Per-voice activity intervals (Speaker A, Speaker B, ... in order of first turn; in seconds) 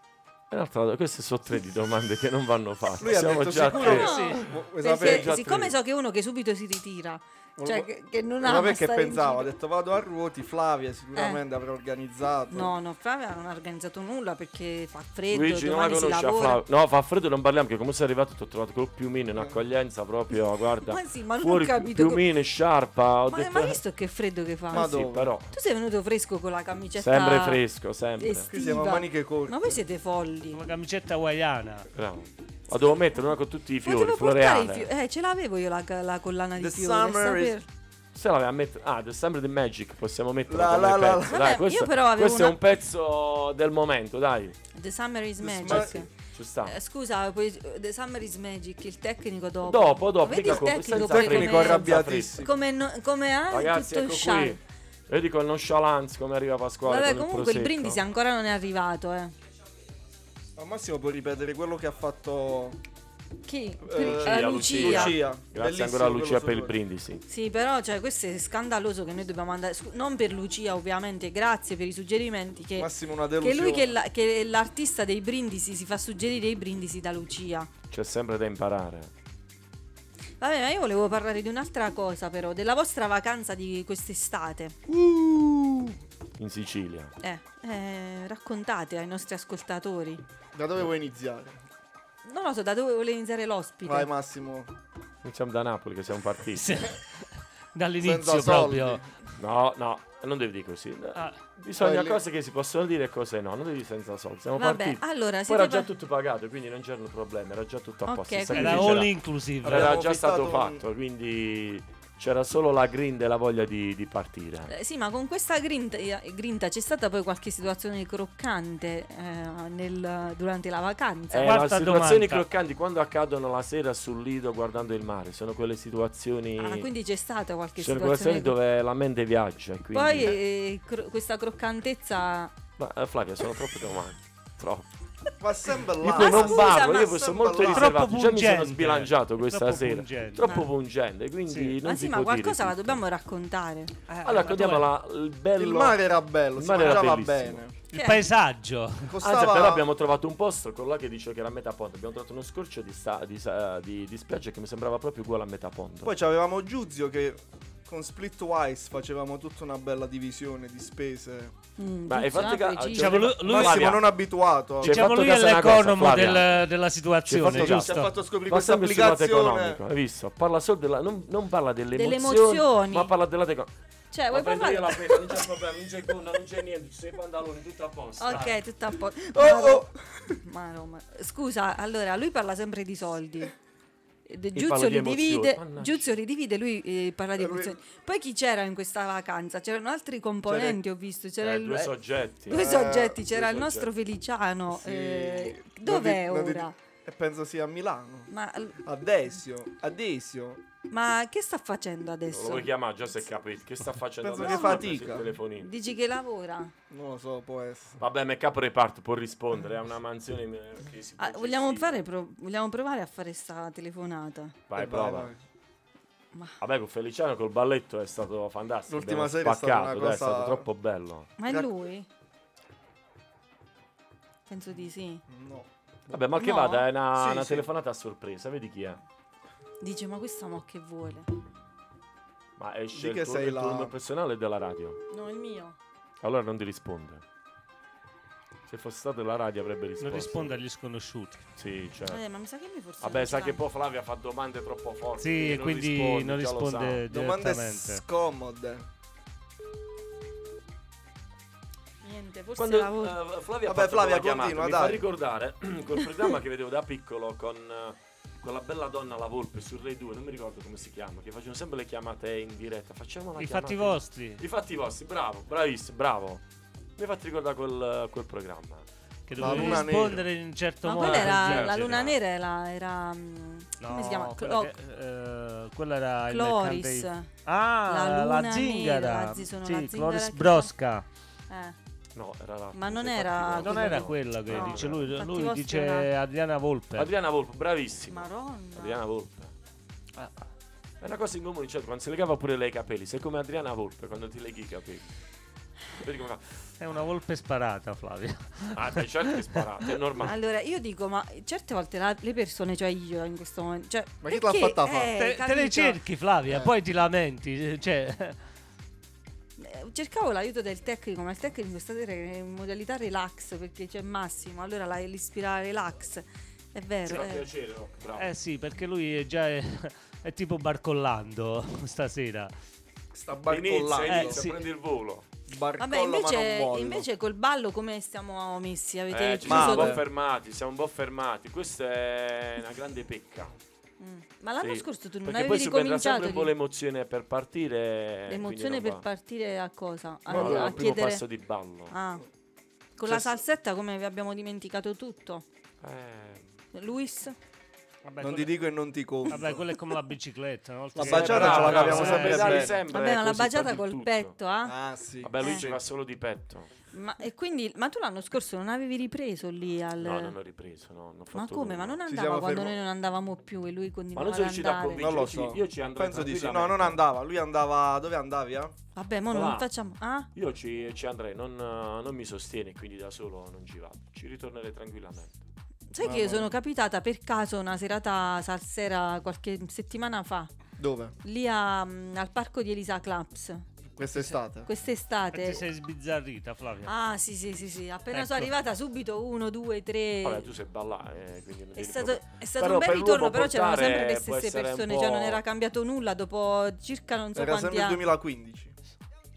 Speaker A: 0.5-4.3, 4.9-5.7, 15.3-23.8, 24.7-25.5, 27.0-28.5, 31.9-34.9, 38.1-44.6, 46.3-46.8, 49.6-52.5, 53.5-58.0, 63.9-67.2, 77.9-79.1, 86.4-87.1, 95.2-96.9, 99.4-114.7, 121.3-126.9, 127.8-130.4, 132.8-134.8, 136.0-143.0, 144.2-146.0, 146.5-147.6, 149.2-156.1, 162.1-164.0, 164.8-166.5, 167.2-173.7, 174.3-178.6, 184.5-186.1, 191.4-193.9, 202.3-205.7, 208.0-212.0, 214.7-215.3, 216.6-221.3, 226.1-229.0, 232.6-235.0, 236.2-237.2, 238.7-240.6, 241.6-242.2, 243.0-247.0, 252.6-266.4, 267.0-268.9, 271.0-272.2, 282.1-285.1, 286.9-289.5, 291.0-295.1, 295.9-296.6, 298.7-300.3, 317.0-318.4, 323.5-325.3, 329.1-333.5, 334.6-339.0, 340.3-341.9, 345.8-346.5, 351.0-354.4, 355.2-356.7, 360.0-362.0, 364.1-367.0, 369.3-369.7, 370.3-375.4, 390.2-395.4
Speaker B: 3.0-5.3, 7.6-7.9, 8.4-12.7, 24.7-25.3, 28.5-29.8, 36.6-37.6, 40.5-41.4, 45.4-46.0, 50.4-52.5, 60.5-62.8, 63.8-66.7, 72.8-73.9, 84.9-86.0, 90.5-91.6, 93.8-94.7, 98.0-99.0, 101.8-102.2, 109.6-110.8, 135.4-138.0, 145.6-147.7, 149.1-149.8, 156.0-161.5, 163.4-165.1, 167.5-169.8, 179.3-179.9, 187.4-187.8, 190.4-190.8, 192.5-193.2, 194.7-198.3, 198.8-200.6, 204.2-205.3, 206.9-208.0, 214.7-215.4, 218.9-220.7, 225.3-226.2, 227.1-227.7, 232.9-233.9, 247.1-248.8, 253.6-255.0, 269.4-270.2, 304.2-305.1, 323.1-324.4, 325.5-327.1, 329.4-330.0, 340.3-340.9, 343.1-343.4, 348.2-349.6, 350.9-352.8, 354.6-355.8, 362.1-362.8, 364.9-368.7, 376.0-376.5, 380.8-381.1, 384.0-384.7, 397.3-398.7
Speaker C: 3.8-9.5, 12.5-16.6, 20.9-22.2, 23.3-24.9, 25.5-27.6, 28.2-30.6, 33.8-37.6, 41.3-42.6, 44.7-46.1, 46.6-54.6, 56.8-59.3, 63.4-65.2, 67.3-77.7, 80.4-84.8, 87.2-90.2, 92.2-94.1, 104.6-105.9, 108.0-109.0, 114.7-121.5, 126.6-128.5, 129.9-132.5, 136.0-137.5, 140.4-140.7, 141.8-143.9, 147.9-148.3, 161.8-163.2, 171.9-173.1, 174.1-175.4, 178.2-183.5, 184.3-191.9, 192.4-196.8, 198.3-198.8, 200.9-202.7, 204.4-204.8, 205.6-206.7, 211.2-214.6, 221.4-222.1, 224.5-225.2, 226.4-226.9, 229.8-231.3, 235.1-235.8, 242.1-243.6, 252.0-253.1, 269.4-269.9, 270.8-274.7, 276.3-277.3, 277.9-280.7, 281.5-281.8, 282.7-286.1, 288.1-289.0, 300.2-306.0, 309.6-317.5, 325.8-330.0, 334.0-336.5, 338.3-341.2, 341.9-342.2, 343.0-345.4, 346.7-347.3, 352.9-354.7, 355.4-355.6, 356.9-360.4, 361.3-365.2, 368.9-370.3, 375.9-380.5, 381.2-383.6, 384.6-385.6, 386.9-390.5, 391.7-398.0
Speaker D: 3.8-4.4, 30.5-31.9, 96.5-99.0, 108.5-110.0, 121.4-122.5, 137.7-140.5, 141.5-141.8, 144.1-144.9, 147.9-149.1, 162.9-164.0, 164.8-168.1, 240.0-241.4, 245.2-248.0, 263.4-264.4, 269.3-272.0, 273.8-281.1, 283.6-287.1, 296.8-299.9, 305.2-308.4, 318.2-322.5, 324.0-324.6, 348.0-348.6, 349.3-352.7, 385.3-386.9, 388.1-388.5